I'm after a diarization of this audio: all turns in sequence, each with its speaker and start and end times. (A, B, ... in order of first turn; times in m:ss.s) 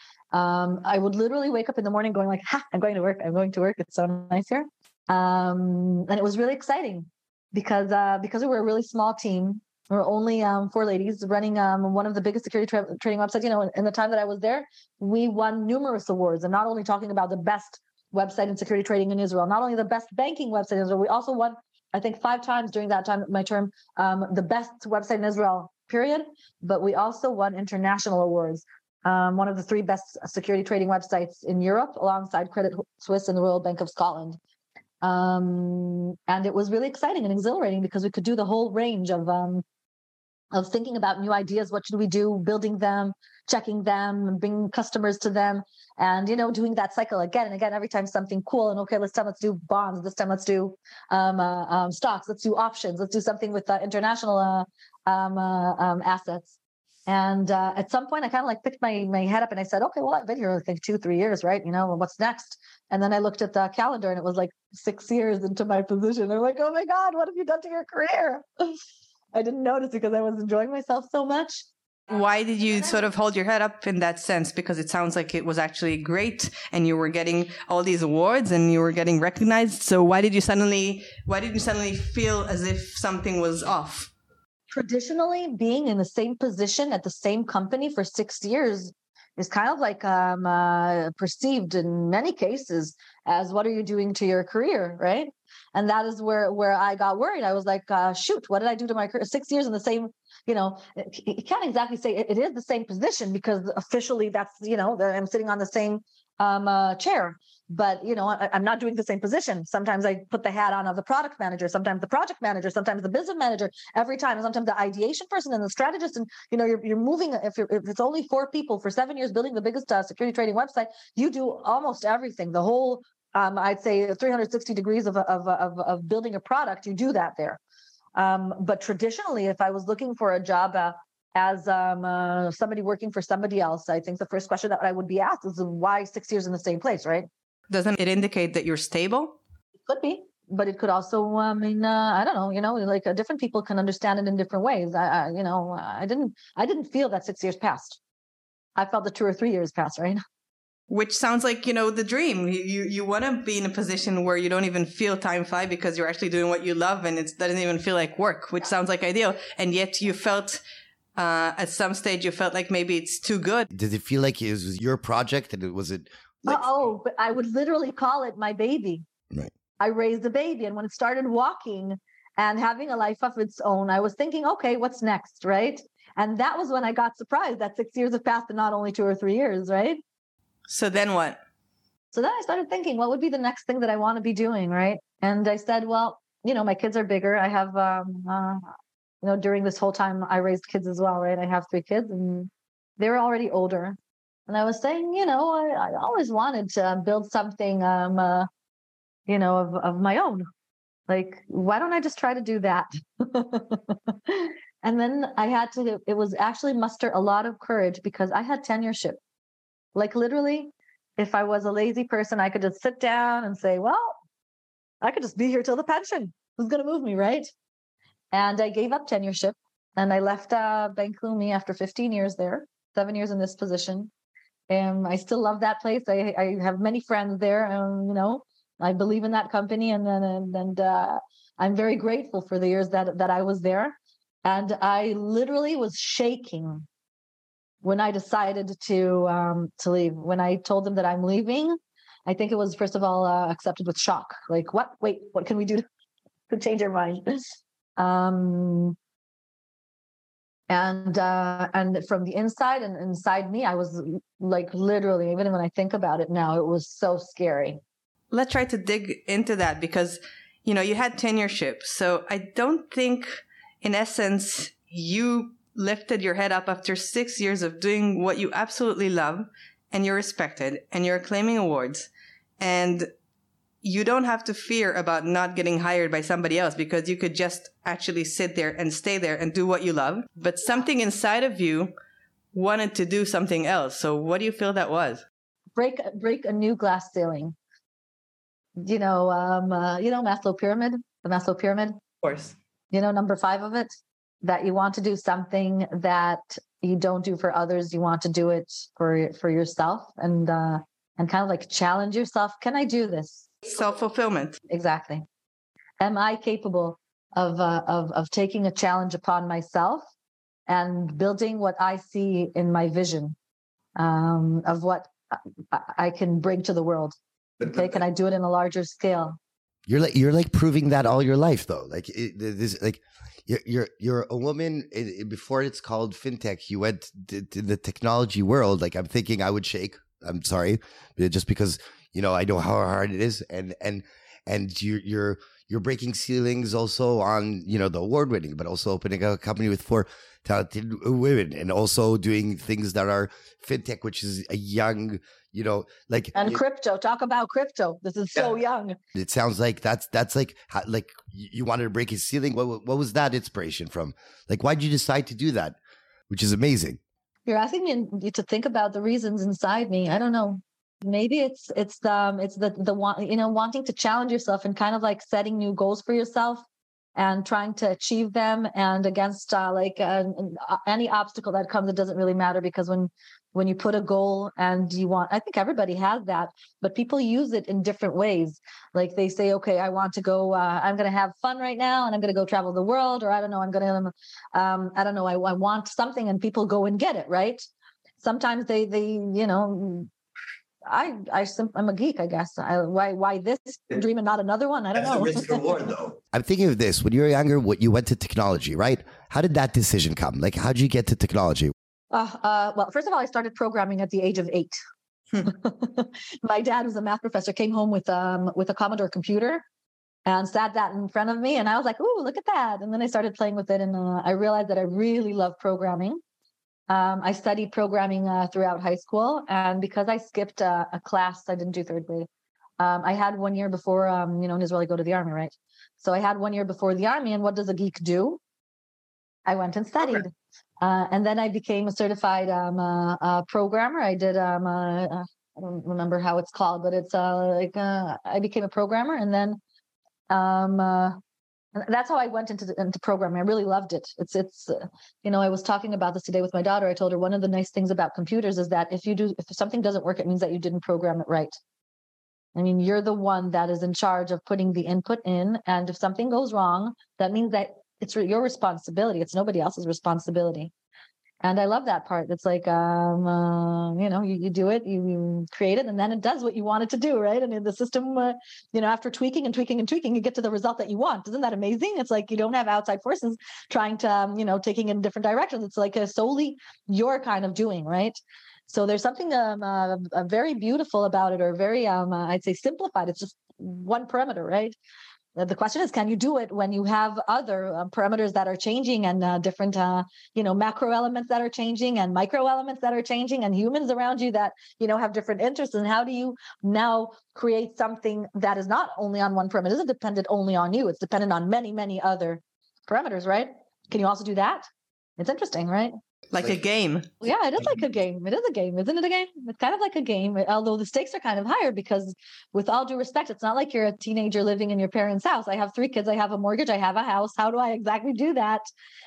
0:00.3-0:34.4 A
0:35.0-0:39.6 A
0:40.5-0:56.6 A
0:57.1-1:08.7 A
1:09.3-1:11.7 A
1:12.1-1:24.1 B
1:24.7-2:07.6 A
2:08.2-2:17.3 A
2:17.7-2:19.4 B
2:19.9-2:28.0 A
2:28.8-2:30.2 A
2:30.9-2:40.6 B
2:41.2-2:43.7 B
2:43.7-2:46.8 C
2:46.5-2:49.0 A
2:49.8-3:00.0 A
3:00.7-3:01.4 B
3:02.1-3:08.6 A
3:09.2-3:14.0 A
3:14.5-3:18.5 A
3:19.3-3:20.5 A
3:21.1-3:29.2 A
3:30.0-3:34.2 A
3:35.0-3:37.5 A
3:38.3-3:44.1 A
3:44.7-3:56.9 A
3:57.8-4:05.8 A
4:06.5-4:07.4 A
4:08.0-4:09.0 A
4:10.7-4:17.8 A
4:18.3-4:32.1 B
4:32.6-4:33.1 B
4:33.8-4:41.9 B
4:42.5-4:45.2 B
4:45.8-4:47.6 A
4:48.8-4:52.0 A
4:52.2-4:52.5 B
4:52.9-5:03.5 A
5:03.7-5:04.6 B
5:04.7-5:05.3 A
5:06.0-5:10.0 A
5:10.7-5:13.4 A
5:14.0-5:19.4 A
5:19.9-5:46.6 C
5:46.4-5:49.0 A
5:49.2-5:55.8 C
5:56.3-5:57.0 C
5:57.5-6:06.6 A
6:07.2-6:27.7 A
6:28.2-6:30.1 A
6:30.9-6:35.9 A
6:36.3-6:41.7 C
6:42.1-6:44.8 A
6:45.4-6:49.6 A
6:50.3-6:56.2 A
6:56.9-7:02.3 A
7:02.8-7:08.4 A
7:09.5-7:19.6 A
7:20.3-7:21.2 A
7:21.8-7:31.6 A
7:32.6-7:40.7 A
7:41.4-8:04.8 A
8:05.4-8:24.7 A
8:25.2-8:25.9 A
8:26.3-8:27.1 B
8:27.2-8:38.7 A